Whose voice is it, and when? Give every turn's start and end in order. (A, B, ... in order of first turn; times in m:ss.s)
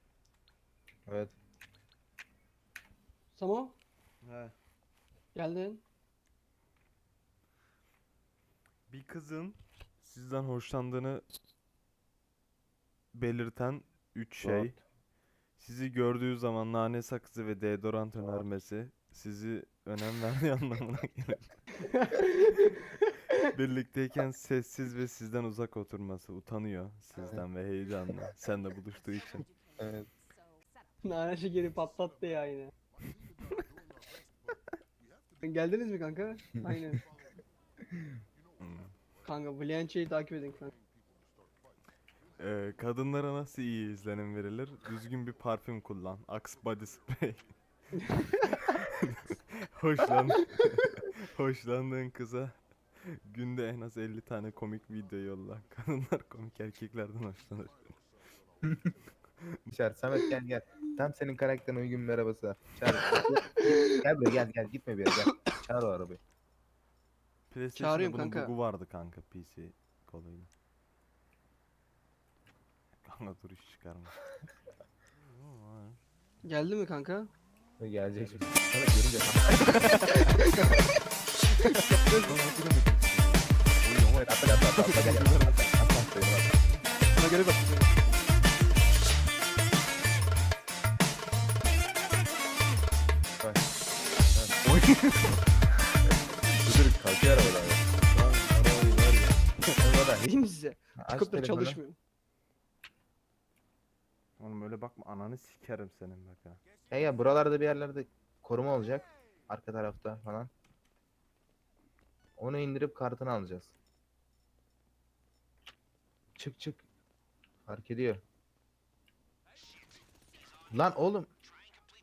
0:01.1-0:01.3 A
0:03.3-0:03.8 B
0:04.2-0:04.5 C
0:05.3-0:05.8 B
0:08.9-0:11.2 C
0:13.1-0:14.7 C
0:15.6-0:21.5 C
0:21.8-0:23.4 B
0:23.4-0:29.5 C
0:29.8-0:30.1 A
0:31.0-0:32.7 B
0:35.4-0:37.0 B
0:38.6-0:38.9 C
0:39.2-0:40.7 B
0:42.4-0:47.5 C
0:48.4-0:57.9 C
0:59.7-1:06.2 A
1:03.0-1:04.0 B
1:05.2-1:05.5 B
1:07.5-1:10.5 C
1:07.7-1:08.5 B
1:13.0-1:14.2 C
1:15.2-1:16.0 C
1:16.4-1:17.3 B
1:17.8-1:19.7 A
1:19.6-1:20.2 C
1:19.9-1:20.9 B
1:21.6-1:25.8 C
1:21.7-1:22.4 B
1:24.1-1:26.5 A
1:27.1-1:28.0 B
1:33.4-1:33.7 A
1:34.6-1:35.4 C
1:36.4-1:37.8 A
1:38.0-1:39.8 C
1:39.8-1:40.3 A
1:40.2-1:42.0 B
1:41.0-1:41.8 A
1:44.4-1:46.6 C
1:46.9-1:50.5 A
1:52.4-1:53.7 A
1:56.4-1:56.8 A
1:57.7-1:58.2 A
2:00.7-2:01.3 A